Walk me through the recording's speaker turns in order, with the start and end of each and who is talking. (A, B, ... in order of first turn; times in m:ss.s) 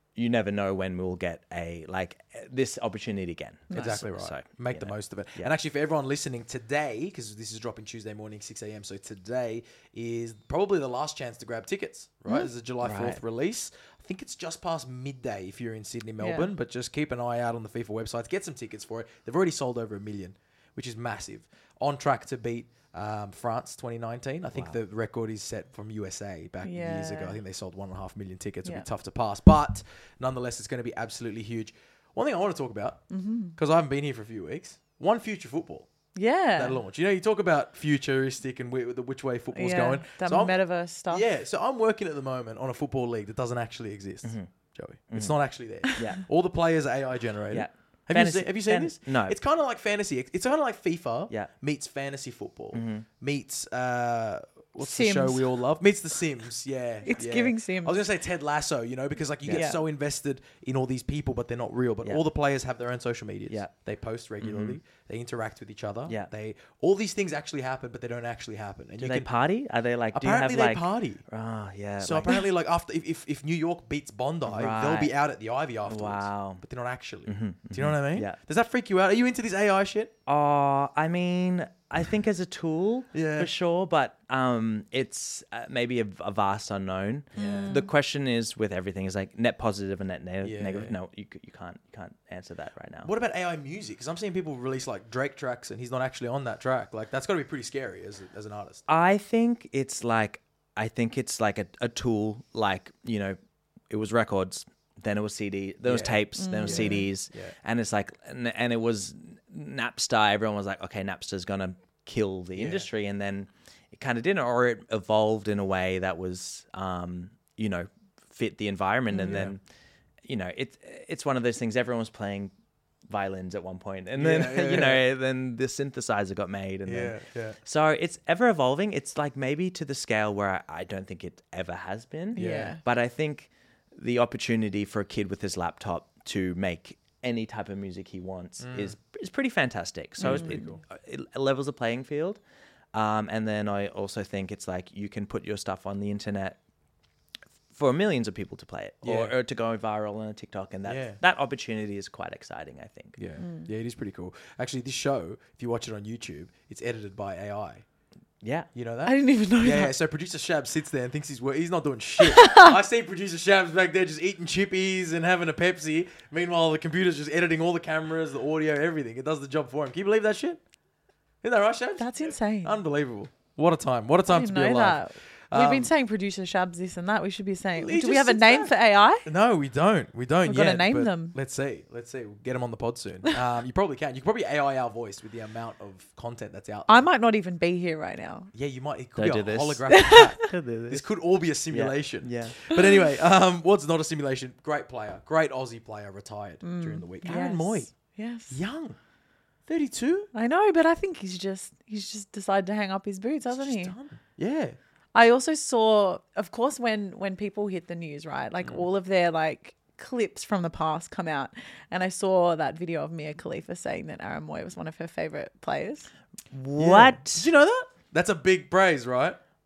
0:00.2-0:05.5 A
0:03.7-0:04.0 B
0:03.7-0:35.9 C
0:12.8-0:13.2 A
0:16.2-0:16.5 B
0:24.5-0:24.8 A
0:26.6-0:27.4 B
0:33.1-0:33.6 B
0:36.1-0:36.8 B
0:36.6-1:09.3 C
0:39.5-0:41.2 B
0:44.2-0:44.5 A
0:45.1-0:45.4 A
0:45.9-0:46.2 A
0:47.5-0:49.4 A
0:52.7-0:53.0 A
0:54.8-0:55.5 B
0:57.0-0:58.0 B
0:59.5-0:59.8 B
1:04.4-1:04.8 A
1:09.0-1:12.4 A
1:10.1-1:11.2 C
1:12.0-1:20.1 C
1:14.4-1:15.1 A
1:15.8-1:16.6 A
1:17.2-1:18.4 A
1:20.3-1:33.1 A
1:23.1-1:23.5 C
1:27.3-1:27.9 B
1:27.3-1:27.8 C
1:30.4-1:31.0 C
1:33.0-1:38.8 C
1:38.9-1:43.4 A
1:43.9-1:59.6 A
1:45.9-1:47.5 C
1:46.4-1:47.1 B
1:52.5-1:52.8 C
1:59.1-1:59.4 B
1:59.2-1:59.5 C
2:00.2-2:02.5 A
2:03.1-2:22.4 A
2:04.2-2:05.0 C
2:06.8-2:07.6 C
2:12.3-2:12.8 B
2:12.4-2:12.7 C
2:18.6-2:18.9 C
2:20.2-2:20.6 B
2:20.2-2:20.8 C
2:22.9-2:26.6 A
2:27.7-2:33.2 A
2:29.0-2:29.3 C
2:30.8-2:31.2 C
2:33.2-2:37.8 C
2:33.4-2:33.7 B
2:38.4-2:38.7 A
2:38.7-2:50.6 C
2:39.0-2:39.9 B
2:42.2-2:42.7 B
2:51.4-2:55.9 C
2:52.0-2:52.8 B
2:54.3-2:59.3 B
2:57.8-2:58.7 C
2:59.2-3:07.1 C
3:00.4-3:01.4 B
3:06.9-3:08.5 B
3:08.5-3:19.0 C
3:09.2-3:11.1 A
3:09.9-3:10.4 B
3:11.7-3:12.7 A
3:16.6-3:18.6 B
3:19.6-3:20.3 C
3:20.3-3:23.9 B
3:23.6-3:24.8 C
3:25.1-3:36.1 B
3:36.5-3:37.5 A
3:36.8-3:39.4 C